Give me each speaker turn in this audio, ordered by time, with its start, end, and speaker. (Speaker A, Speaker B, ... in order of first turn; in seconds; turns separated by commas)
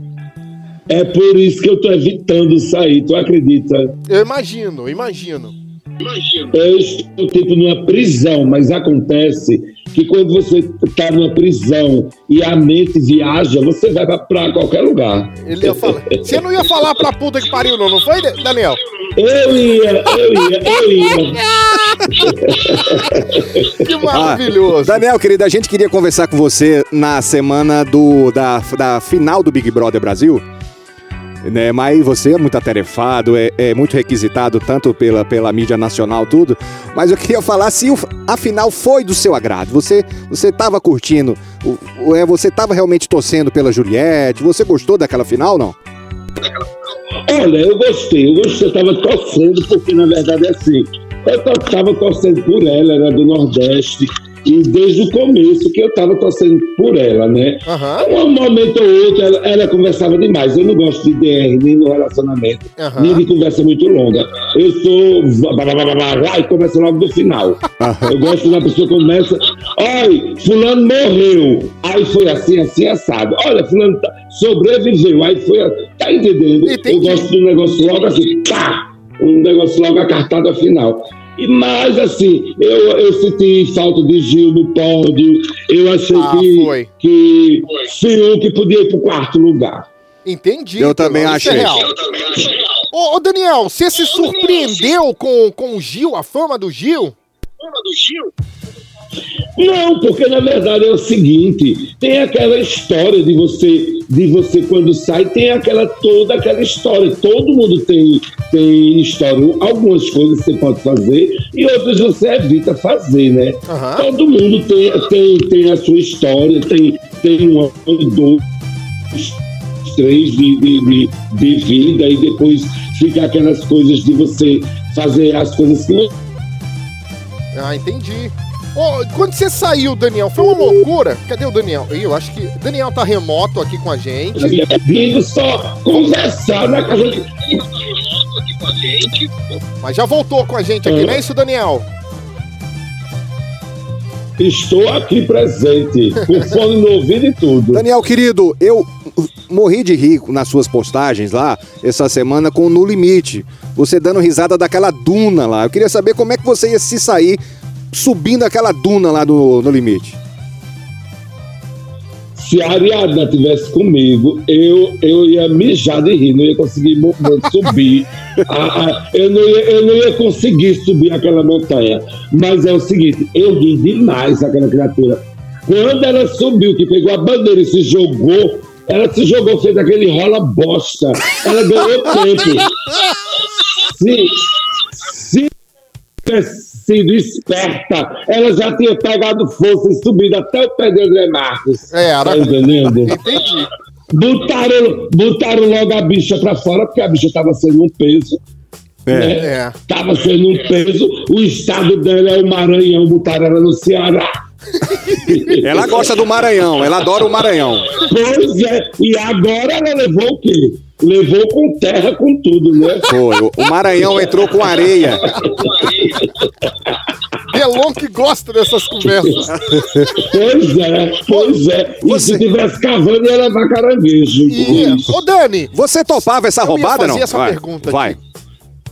Speaker A: 0.9-4.0, Speaker B: 4.1-5.5, Speaker A: 6.4-16.4, Speaker B: 15.4-18.8, Speaker A: 19.2-21.4, Speaker B: 20.8-22.3, Speaker A: 22.1-23.9, Speaker B: 23.8-25.0, Speaker C: 24.1-30.4, Speaker C: 31.4-45.8, Speaker A: 47.3-89.9, Speaker B: 57.7-58.1, Speaker B: 62.8-63.2, Speaker C: 67.8-68.2, Speaker B: 76.7-77.2, Speaker B: 86.1-86.9, Speaker B: 90.2-91.9, Speaker C: 90.8-91.9, Speaker B: 92.9-97.2, Speaker A: 99.6-118.4, Speaker B: 113.7-114.1, Speaker A: 119.1-126.1, Speaker B: 127.5-134.6, Speaker A: 134.4-137.6, Speaker A: 138.8-139.3, Speaker B: 139.8-141.9, Speaker A: 140.8-141.2, Speaker A: 144.4-147.8, Speaker C: 147.7-157.4, Speaker C: 157.9-160.2, Speaker A: 162.4-182.7, Speaker A: 183.8-185.5, Speaker A: 186.2-193.3, Speaker B: 191.9-193.7, Speaker A: 194.1-198.4, Speaker C: 199.1-199.4, Speaker A: 199.1-204.3, Speaker B: 199.4-199.8, Speaker A: 205.1-206.0, Speaker C: 205.6-207.9, Speaker A: 208.0-213.1, Speaker C: 213.1-215.3, Speaker A: 215.5-216.3, Speaker B: 217.5-219.8, Speaker A: 219.2-219.5, Speaker A: 220.1-225.2, Speaker B: 221.3-221.6, Speaker C: 222.1-222.4, Speaker B: 224.5-225.7, Speaker C: 225.7-228.2, Speaker B: 226.6-228.2